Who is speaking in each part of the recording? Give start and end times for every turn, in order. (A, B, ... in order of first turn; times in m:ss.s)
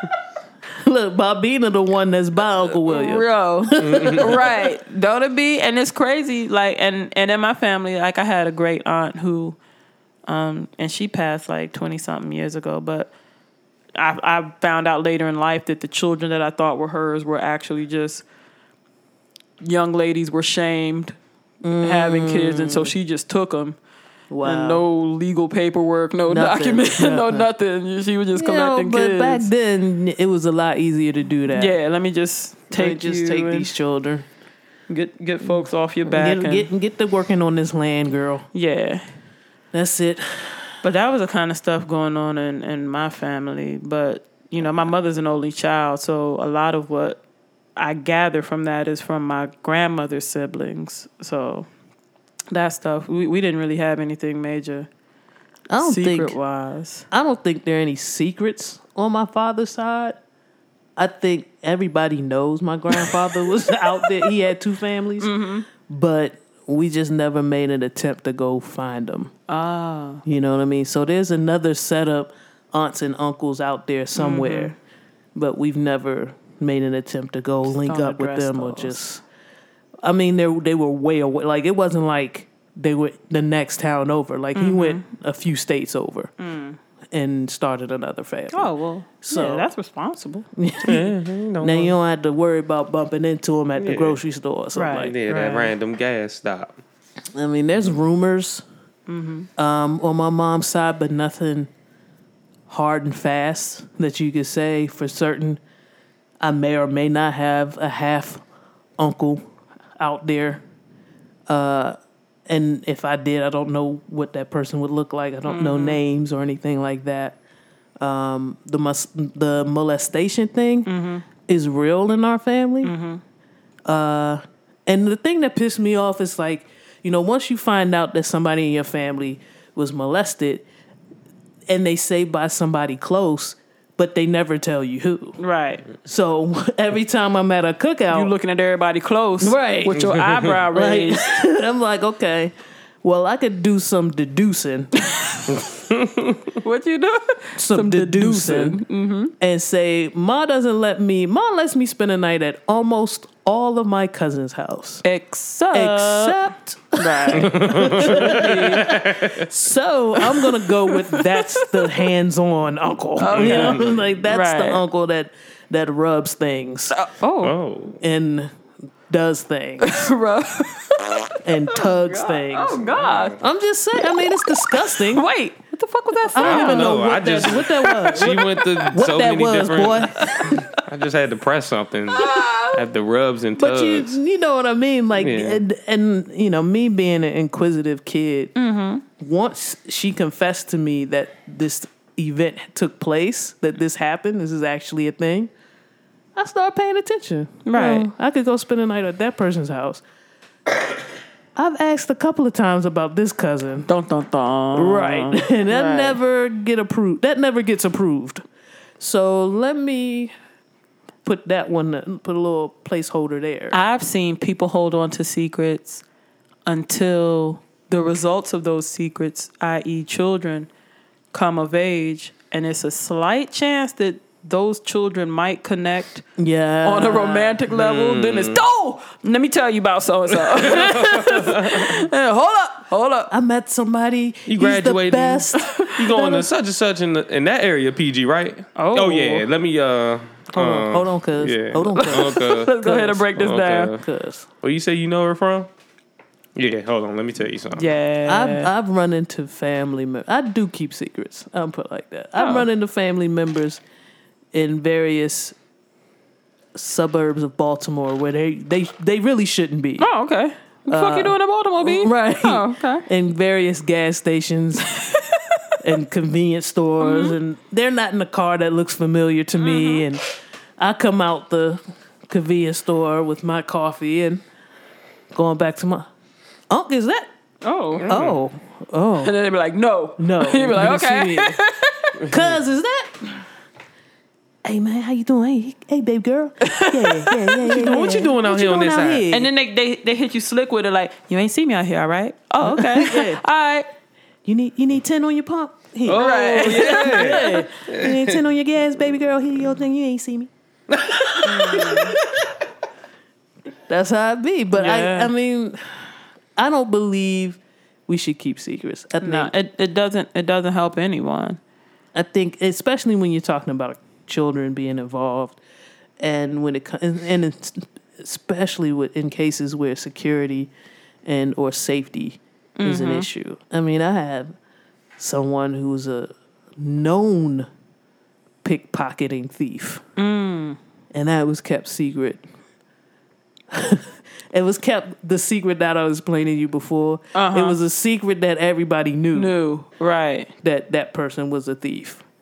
0:00.8-0:04.4 A
0:02.7-0:09.6 B
0:03.8-0:04.3 C
0:10.3-0:13.1 B
0:14.0-0:18.2 B
0:19.6-0:21.2 B
0:21.6-0:22.9 A
0:21.8-0:23.8 B
0:24.3-0:24.8 A
0:24.4-0:29.5 B
0:26.3-0:27.5 A
0:28.4-0:31.8 A
0:31.5-0:33.7 B
0:32.7-0:34.3 A
0:34.9-0:36.7 B
0:36.1-0:38.5 A
0:38.5-0:39.0 B
0:39.7-0:40.7 A
0:40.8-0:47.2 B
0:47.8-0:51.7 B
0:52.5-0:54.9 B
0:55.7-0:56.4 A
0:55.8-0:57.1 B
0:57.1-1:00.2 A
1:01.0-1:09.3 A
1:04.0-1:04.3 B
1:05.2-1:05.7 B
1:09.5-1:10.2 B
1:10.2-1:14.8 A
1:14.2-1:14.8 B
1:15.4-1:19.2 A
1:17.7-1:19.0 B
1:20.0-1:26.3 A
1:24.6-1:25.0 B
1:26.4-1:26.8 B
1:27.1-1:28.7 A
1:28.5-1:30.5 B
1:29.2-1:29.7 A
1:30.6-1:35.2 A
1:30.8-1:32.0 C
1:33.8-1:34.2 C
1:34.8-1:35.7 B
1:35.0-1:36.8 C
1:37.4-1:38.6 A
1:39.1-1:39.5 B
1:39.6-1:41.7 A
1:42.7-1:45.6 A
1:46.4-1:48.4 A
1:49.0-1:49.4 A
1:50.0-1:50.6 A
1:51.5-1:57.4 A
1:55.5-1:56.0 B
1:58.0-2:00.9 A
2:00.9-2:01.2 B
2:01.4-2:02.9 A
2:02.8-2:03.2 B
2:03.9-2:10.7 A
2:11.7-2:15.4 A
2:15.4-2:15.8 B
2:16.0-2:18.3 A
2:18.1-2:21.4 B
2:19.4-2:20.0 A
2:20.0-2:20.5 C
2:20.7-2:24.9 A
2:25.0-2:25.6 B
2:25.9-2:26.4 C
2:26.6-2:29.3 B
2:27.6-2:28.8 A
2:29.4-2:35.0 A
2:35.0-2:36.4 B
2:35.7-2:47.0 A
2:37.0-2:38.9 B
2:37.4-2:39.5 C
2:40.2-2:42.1 B
2:43.2-2:44.8 B
2:43.3-2:44.0 C
2:46.9-2:47.6 B
2:47.4-2:48.0 C
2:48.0-2:48.5 A
2:49.1-2:50.1 A
2:49.8-2:53.4 B
2:51.4-2:52.8 A
2:52.9-2:53.4 C
2:53.4-2:55.3 A
2:54.2-2:57.0 B
2:56.3-3:00.6 A
2:56.4-3:04.2 C
2:58.6-2:58.9 B
3:00.3-3:00.6 B
3:02.1-3:02.8 B
3:03.6-3:08.5 A
3:05.2-3:05.6 C
3:08.6-3:09.0 B
3:09.2-3:15.5 A
3:16.4-3:20.0 A
3:17.7-3:18.1 B
3:21.6-3:23.9 A
3:23.9-3:26.2 B
3:24.8-3:28.4 A
3:29.0-3:30.3 A
3:31.2-3:33.8 A
3:33.7-3:36.0 B
3:36.7-3:40.7 B
3:41.3-3:46.2 B
3:46.4-3:47.6 A
3:46.8-3:53.3 B
3:47.7-3:48.6 C
3:50.4-3:52.1 C
3:53.3-3:55.8 A
3:54.5-4:02.8 C
3:55.6-3:56.4 B
3:58.8-3:59.4 B
4:00.5-4:03.3 A
4:01.9-4:03.9 B
4:03.3-4:04.0 C
4:04.0-4:04.5 A
4:04.6-4:05.7 C
4:06.6-4:07.9 C
4:07.8-4:08.7 B
4:08.3-4:13.8 A
4:12.4-4:12.7 B
4:14.5-4:15.6 A
4:16.8-4:20.1 A
4:20.0-4:23.0 B
4:20.9-4:24.9 A
4:25.0-4:25.4 B
4:25.8-4:30.3 A
4:27.0-4:27.4 B
4:29.6-4:30.0 B
4:30.8-4:34.4 A
4:35.3-4:36.1 A
4:36.7-4:37.3 A
4:37.6-4:38.1 B
4:38.0-4:38.4 C
4:38.1-4:39.3 A
4:39.2-4:42.2 B
4:40.2-4:41.6 A
4:42.3-4:43.4 A
4:44.6-4:49.5 A
4:46.6-4:47.7 B
4:47.7-4:49.3 C
4:49.3-4:53.9 B
4:52.6-4:53.4 A
4:54.4-5:00.5 A
4:56.0-4:58.4 C
4:56.1-4:57.7 B
5:00.9-5:01.6 C
5:01.4-5:02.2 B
5:03.9-5:05.8 A
5:04.7-5:05.3 B
5:06.6-5:09.5 A
5:09.2-5:11.6 B
5:12.2-5:15.6 A
5:16.2-5:20.7 A
5:21.2-5:24.5 A
5:22.8-5:23.3 B
5:25.2-5:27.7 A
5:28.6-5:30.0 A
5:30.2-5:30.8 B
5:31.1-5:32.4 A
5:33.7-5:39.5 A
5:37.3-5:37.8 B
5:39.3-5:40.5 B
5:40.6-5:42.2 A